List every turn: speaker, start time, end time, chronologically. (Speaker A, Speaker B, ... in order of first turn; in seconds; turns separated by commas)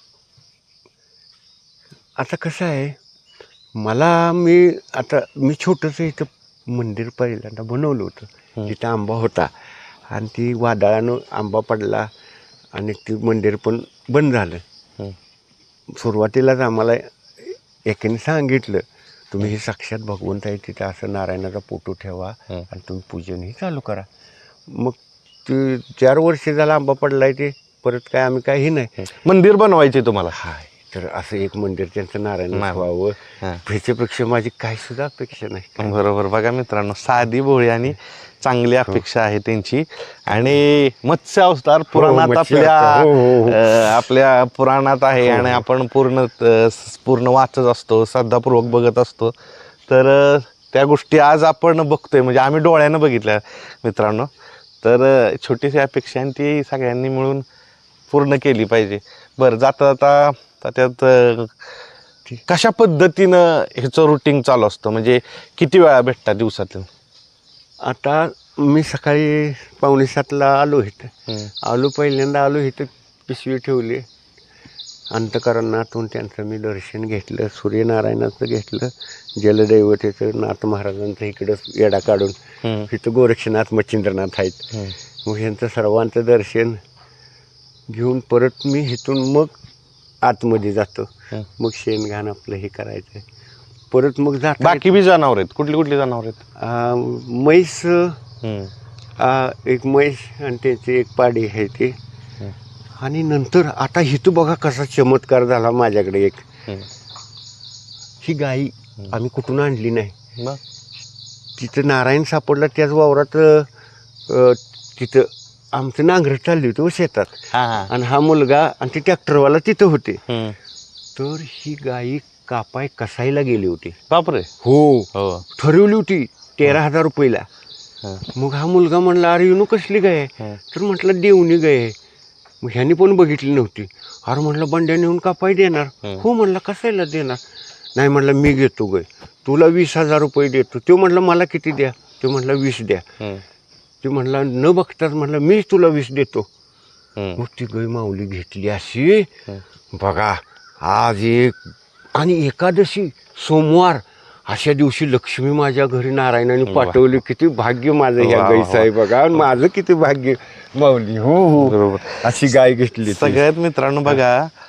Speaker A: 2.2-3.0, Speaker A: 3.8-9.5, Speaker A: 10.1-12.1, Speaker A: 12.7-14.6, Speaker A: 15.9-24.1, Speaker A: 24.7-28.9, Speaker B: 29.0-30.4, Speaker A: 30.3-36.0, Speaker B: 32.5-32.9, Speaker B: 35.8-49.3, Speaker A: 41.9-44.1, Speaker A: 45.2-45.6, Speaker B: 49.9-54.3, Speaker B: 54.8-57.5, Speaker B: 58.1-61.6, Speaker B: 62.5-66.9, Speaker A: 67.8-74.0, Speaker A: 75.1-82.3, Speaker B: 82.6-82.9, Speaker A: 82.9-84.7, Speaker A: 85.2-86.8, Speaker A: 87.9-89.5, Speaker A: 90.2-93.3, Speaker A: 93.9-95.0, Speaker B: 94.6-96.4, Speaker A: 96.6-98.2, Speaker B: 98.4-98.7, Speaker A: 99.2-102.0, Speaker A: 103.0-106.5, Speaker A: 108.2-110.2, Speaker A: 111.6-113.7, Speaker A: 114.3-120.2, Speaker B: 117.5-117.9, Speaker B: 120.3-120.6, Speaker A: 121.2-124.0, Speaker B: 124.1-124.5, Speaker A: 124.6-127.5, Speaker B: 125.1-125.5, Speaker A: 128.3-132.0, Speaker A: 132.6-137.4, Speaker A: 138.0-143.1, Speaker A: 144.0-146.5, Speaker A: 147.4-149.3, Speaker A: 149.9-151.6, Speaker A: 152.2-163.4, Speaker B: 156.7-157.0, Speaker B: 158.2-159.4, Speaker B: 161.6-162.3, Speaker B: 163.1-164.5